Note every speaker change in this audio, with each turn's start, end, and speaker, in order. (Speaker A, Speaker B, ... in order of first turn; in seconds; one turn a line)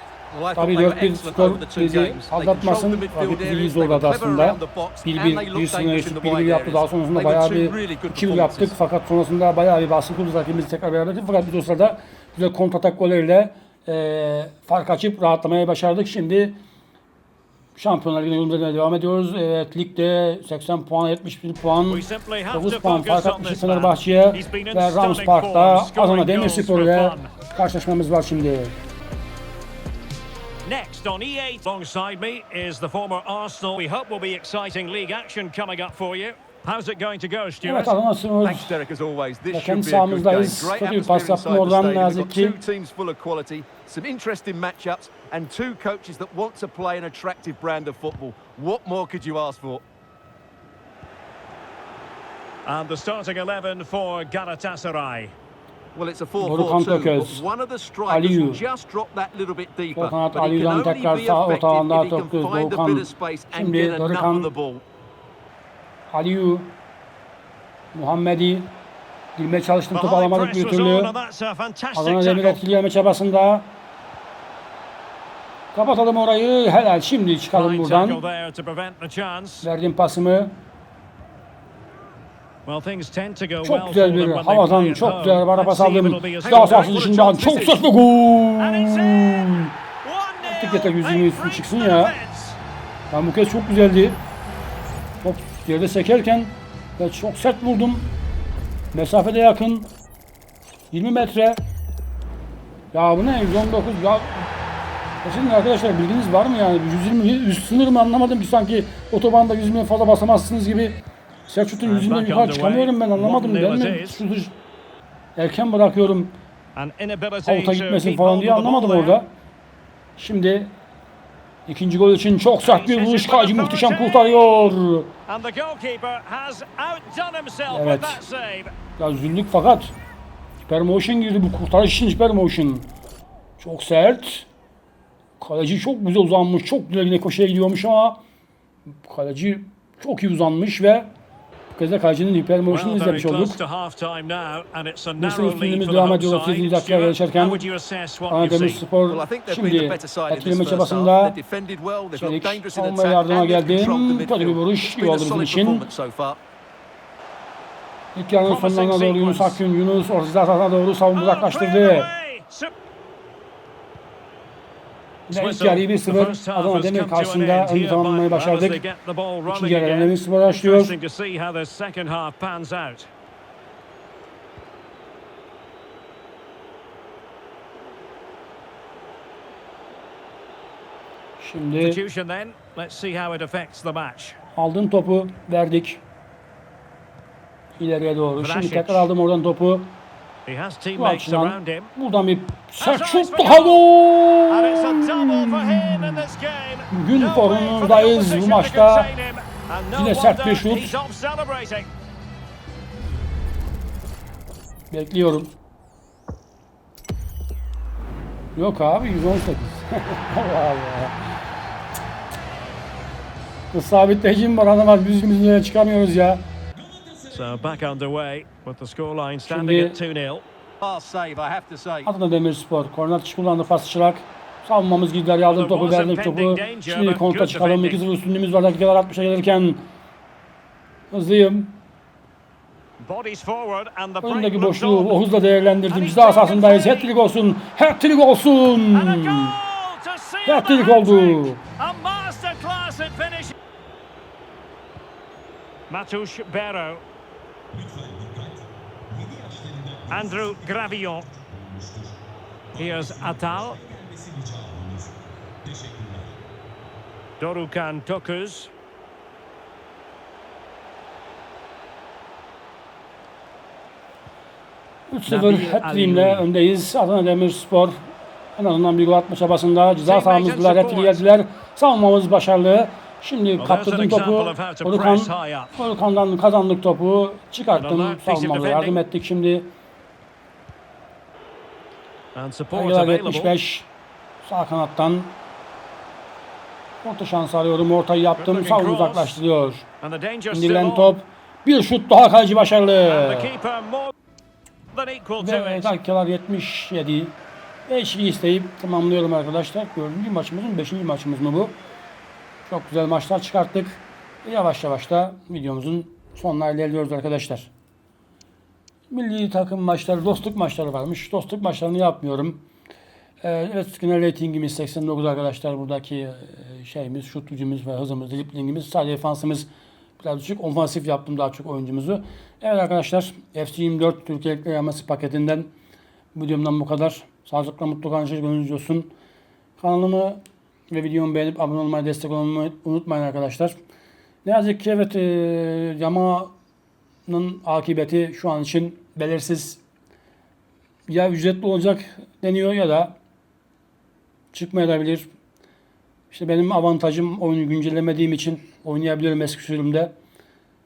Speaker A: 0.3-8.8
Speaker B: 0.6-16.6
Speaker B: 17.8-28.7
Speaker C: 21.9-27.3
Speaker C: 30.6-38.0
Speaker B: 37.6-38.8
Speaker A: 38.4-49.8
Speaker B: 39.5-42.6
Speaker C: 52.6-55.3
Speaker A: 55.9-64.8
Speaker B: 56.4-57.5
Speaker B: 58.1-58.6
Speaker B: 60.0-64.5
Speaker B: 66.1-66.8
Speaker B: 67.9-68.7
Speaker B: 69.4-71.1
Speaker C: 69.9-72.6
Speaker B: 72.0-73.7
Speaker B: 75.7-78.2
Speaker C: 77.5-79.7
Speaker B: 79.6-80.5
Speaker C: 82.7-87.0
Speaker B: 83.6-89.7
Speaker A: 86.4-87.8
Speaker C: 88.6-92.6
Speaker B: 90.5-92.2
Speaker B: 93.1-94.2
Speaker B: 95.2-98.1
Speaker B: 98.9-99.9
Speaker B: 100.9-101.6
Speaker B: 102.9-104.5
Speaker B: 105.2-114.5
Speaker C: 111.8-114.2
Speaker B: 115.4-116.4
Speaker C: 116.8-119.2
Speaker B: 117.4-119.3
Speaker B: 120.2-120.7
Speaker B: 121.7-125.1
Speaker C: 122.6-124.5
Speaker C: 125.3-128.7
Speaker B: 127.7-128.2
Speaker B: 129.0-129.9
Speaker B: 130.7-132.9
Speaker B: 133.6-134.5
Speaker B: 135.4-138.2
Speaker B: 139.0-141.1
Speaker B: 141.7-143.6
Speaker C: 142.7-148.8
Speaker B: 145.2-147.6
Speaker B: 148.3-151.4
Speaker A: 149.1-156.4
Speaker B: 152.2-155.9
Speaker B: 158.2-162.1
Speaker C: 158.5-159.6
Speaker C: 161.2-162.7
Speaker C: 165.3-173.1
Speaker B: 165.3-168.8
Speaker B: 169.5-170.9
Speaker B: 181.4-182.0
Speaker C: 181.8-184.4
Speaker B: 184.6-186.0
Speaker B: 187.8-189.9
Speaker C: 188.4-189.1
Speaker C: 190.5-191.9
Speaker B: 191.0-196.2
Speaker C: 192.8-193.9
Speaker C: 194.5-201.9
Speaker B: 196.9-199.1
Speaker B: 200.0-201.0
Speaker B: 204.9-205.5
Speaker B: 208.6-211.2
Speaker B: 213.7-216.4
Speaker A: 216.9-217.7
Speaker C: 217.3-220.4
Speaker B: 219.5-220.0
Speaker A: 220.8-222.1
Speaker B: 222.1-229.8
Speaker C: 225.4-228.0
Speaker B: 231.1-231.8
Speaker C: 233.0-235.2
Speaker B: 234.2-239.6
Speaker C: 235.9-237.1
Speaker C: 238.9-243.6
Speaker B: 240.4-241.6
Speaker C: 245.9-247.0
Speaker A: 247.7-252.2
Speaker C: 250.1-251.3
Speaker A: 252.7-256.4
Speaker C: 252.8-253.8
Speaker C: 257.4-258.7
Speaker B: 265.1-268.0
Speaker C: 265.3-266.5
Speaker B: 268.6-279.7
Speaker C: 270.1-271.3
Speaker C: 273.6-275.7
Speaker C: 277.8-279.0
Speaker C: 282.4-283.5
Speaker B: 282.7-283.9
Speaker B: 284.4-285.4
Speaker B: 287.0-289.9
Speaker C: 288.4-289.4
Speaker C: 290.0-291.2
Speaker B: 290.5-293.5
Speaker C: 293.1-294.1
Speaker C: 294.9-295.9
Speaker B: 295.4-297.4
Speaker B: 297.9-301.8
Speaker B: 302.7-307.7
Speaker B: 309.1-312.6
Speaker B: 313.4-319.7
Speaker B: 320.2-325.7
Speaker B: 326.3-329.1
Speaker B: 329.8-333.8
Speaker B: 334.4-336.5
Speaker B: 337.3-339.8
Speaker B: 341.1-343.1
Speaker B: 344.5-345.3
Speaker B: 346.3-350.1